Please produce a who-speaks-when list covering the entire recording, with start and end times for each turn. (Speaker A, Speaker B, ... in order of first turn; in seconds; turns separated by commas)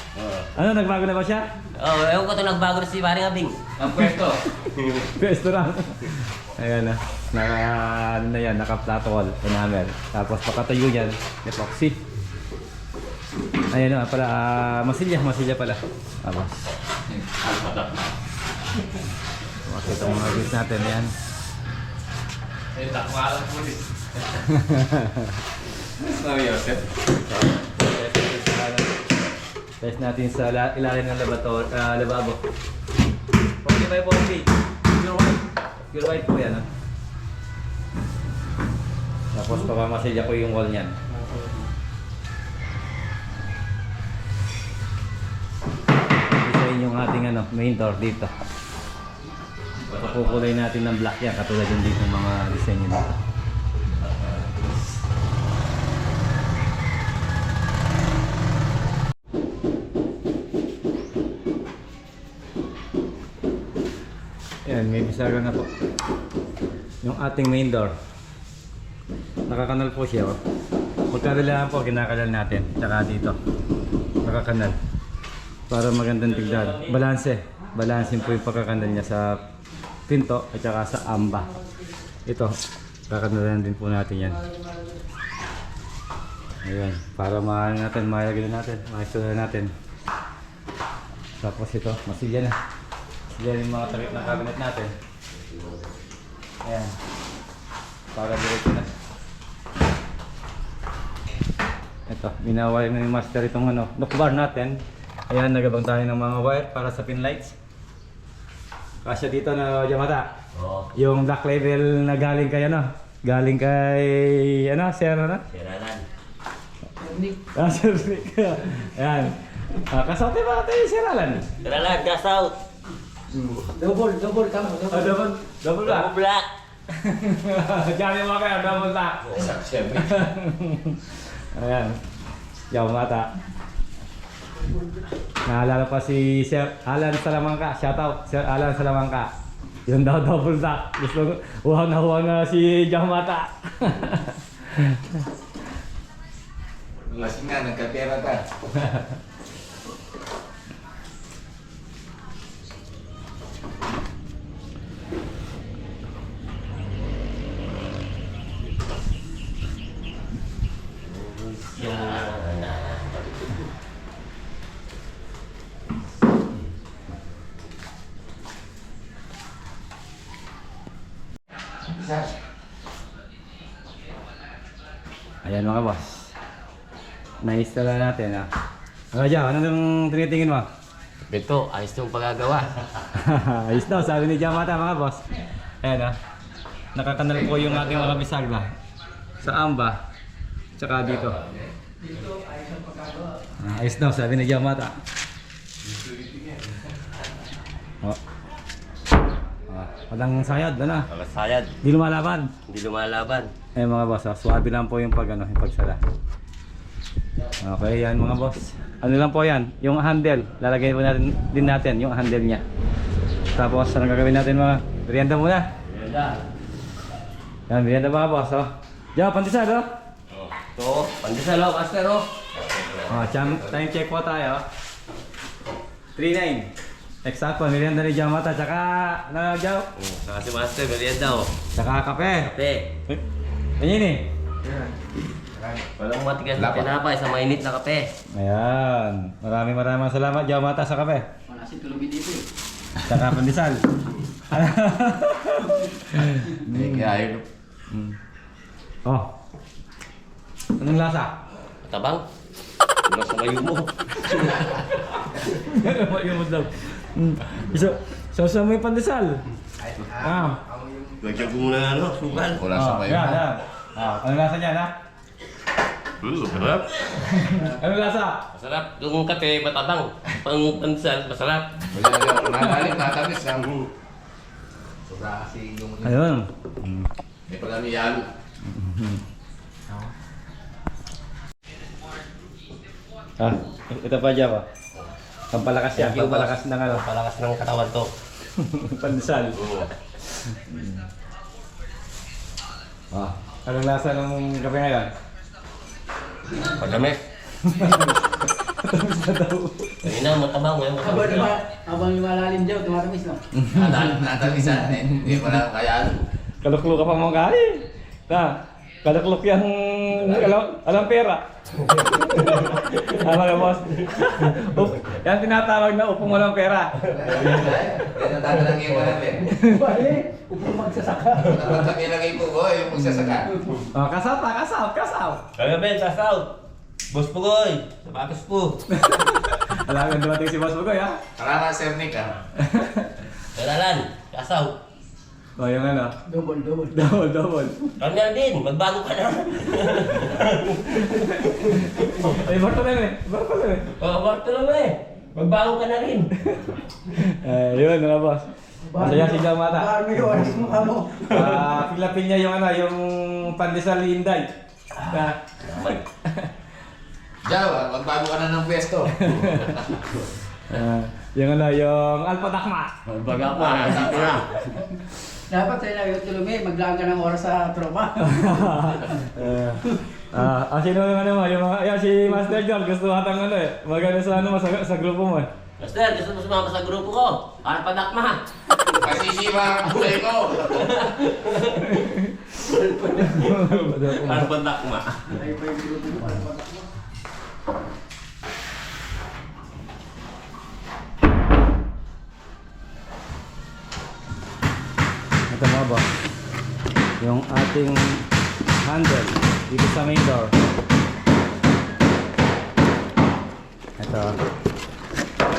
Speaker A: 0.6-1.5, Speaker B: 1.8-3.6, Speaker C: 3.8-4.4, Speaker A: 5.0-12.0, Speaker A: 13.7-16.6, Speaker C: 17.1-17.9, Speaker A: 19.6-21.1, Speaker C: 22.7-24.0, Speaker A: 24.4-25.3, Speaker C: 25.9-26.9, Speaker A: 27.2-28.9, Speaker A: 29.8-32.4, Speaker A: 33.6-35.4, Speaker A: 35.9-36.7, Speaker A: 39.3-41.0, Speaker A: 46.3-48.3, Speaker B: 49.9-50.4, Speaker A: 49.9-53.1, Speaker B: 54.0-54.7, Speaker A: 64.7-65.7, Speaker A: 67.0-67.9, Speaker A: 69.5-70.4, Speaker A: 71.1-73.4, Speaker A: 74.2-74.8, Speaker A: 75.7-79.4, Speaker B: 76.3-77.0, Speaker B: 78.1-78.4, Speaker A: 80.1-81.5, Speaker A: 82.3-82.5, Speaker A: 83.1-84.4, Speaker A: 86.6-89.7, Speaker A: 91.4-92.6, Speaker A: 93.3-94.9, Speaker A: 96.6-97.0, Speaker A: 98.1-98.9, Speaker A: 102.1-107.5, Speaker A: 109.0-110.3, Speaker B: 110.5-110.9, Speaker A: 110.9-115.4, Speaker B: 115.5-116.1, Speaker D: 117.0-117.4, Speaker A: 117.5-121.5, Speaker B: 121.6-122.6, Speaker A: 123.3-123.7, Speaker D: 123.7-125.2, Speaker A: 124.8-126.1, Speaker B: 125.8-126.5, Speaker A: 126.9-129.4, Speaker C: 129.3-130.2, Speaker A: 129.9-132.0, Speaker A: 132.7-133.3, Speaker A: 135.5-139.3, Speaker A: 139.9-145.2, Speaker C: 147.1-148.4, Speaker B: 161.1-163.6, Speaker A: 175.4-176.3, Speaker A: 177.4-178.5, Speaker A: 179.1-180.7, Speaker B: 181.3-182.9, Speaker A: 183.1-185.2, Speaker A: 185.8-186.2, Speaker A: 186.9-188.7, Speaker C: 187.5-188.1, Speaker A: 189.4-190.0, Speaker A: 190.8-191.4, Speaker C: 191.1-191.7, Speaker D: 192.0-193.4, Speaker A: 193.6-195.0, Speaker C: 195.8-196.8, Speaker A: 199.7-201.1, Speaker B: 201.1-201.8, Speaker A: 201.8-202.5, Speaker B: 202.7-203.5, Speaker A: 203.8-206.0, Speaker A: 207.6-212.6, Speaker A: 213.5-215.7, Speaker B: 215.9-216.4, Speaker A: 217.7-219.9, Speaker B: 220.3-223.7, Speaker A: 223.1-224.6, Speaker A: 226.2-226.7, Speaker A: 227.2-229.9, Speaker B: 230.0-231.5, Speaker A: 231.7-232.5, Speaker B: 232.4-232.9, Speaker A: 233.8-234.3, Speaker C: 234.6-234.9, Speaker C: 235.5-235.9, Speaker B: 236.0-238.1, Speaker C: 236.6-236.9, Speaker A: 238.3-241.3, Speaker D: 241.5-242.5, Speaker A: 243.0-243.8, Speaker A: 244.5-247.1, Speaker C: 246.7-247.5, Speaker A: 247.9-248.2, Speaker A: 249.1-249.3, Speaker A: 250.8-251.3, Speaker B: 251.9-252.2, Speaker B: 253.1-254.7, Speaker A: 255.5-259.4, Speaker C: 259.8-261.5, Speaker A: 260.2-260.6, Speaker B: 261.2-262.7, Speaker C: 262.4-263.5, Speaker A: 262.7-264.9, Speaker B: 266.2-267.4, Speaker A: 267.2-268.4, Speaker B: 268.5-271.8, Speaker C: 271.9-273.8, Speaker C: 275.1-276.2, Speaker A: 276.0-277.1, Speaker C: 277.5-278.3, Speaker A: 278.6-279.2, Speaker A: 283.4-284.7, Speaker A: 285.5-287.1, Speaker B: 285.9-288.1, Speaker A: 288.6-289.8, Speaker A: 290.5-291.0, Speaker A: 293.1-295.1, Speaker B: 296.6-297.2, Speaker A: 297.6-298.2, Speaker A: 298.8-300.2, Speaker B: 300.0-301.6, Speaker D: 301.0-303.4, Speaker A: 303.5-304.0, Speaker C: 303.7-306.2, Speaker A: 306.6-311.4, Speaker C: 310.2-310.5, Speaker A: 312.2-317.1, Speaker C: 317.1-319.5, Speaker A: 319.5-319.9, Speaker D: 319.6-321.9, Speaker C: 321.5-323.5, Speaker A: 323.9-325.4, Speaker B: 325.6-326.5, Speaker B: 327.1-328.8, Speaker A: 328.9-331.2, Speaker C: 331.4-332.4, Speaker A: 332.6-333.3, Speaker B: 333.6-334.8, Speaker A: 335.6-336.2, Speaker D: 336.3-337.0, Speaker A: 336.9-337.9, Speaker B: 338.0-342.3, Speaker A: 341.1-343.9, Speaker B: 343.9-346.3, Speaker A: 346.4-348.5, Speaker D: 348.9-351.4, Speaker A: 349.0-349.9, Speaker A: 351.2-356.5, Speaker B: 355.6-356.0, Speaker C: 357.4-360.0, Speaker A: 359.1-359.8, Speaker A: 360.7-362.9, Speaker B: 363.1-364.7, Speaker C: 363.6-364.5, Speaker D: 365.5-368.8, Speaker A: 368.2-375.5, Speaker B: 375.8-378.4, Speaker C: 378.9-381.1, Speaker B: 380.6-385.4, Speaker A: 381.8-382.5, Speaker A: 383.2-384.5, Speaker D: 385.3-386.9, Speaker A: 395.5-396.1, Speaker A: 397.2-398.3, Speaker A: 398.8-400.6, Speaker A: 404.0-404.4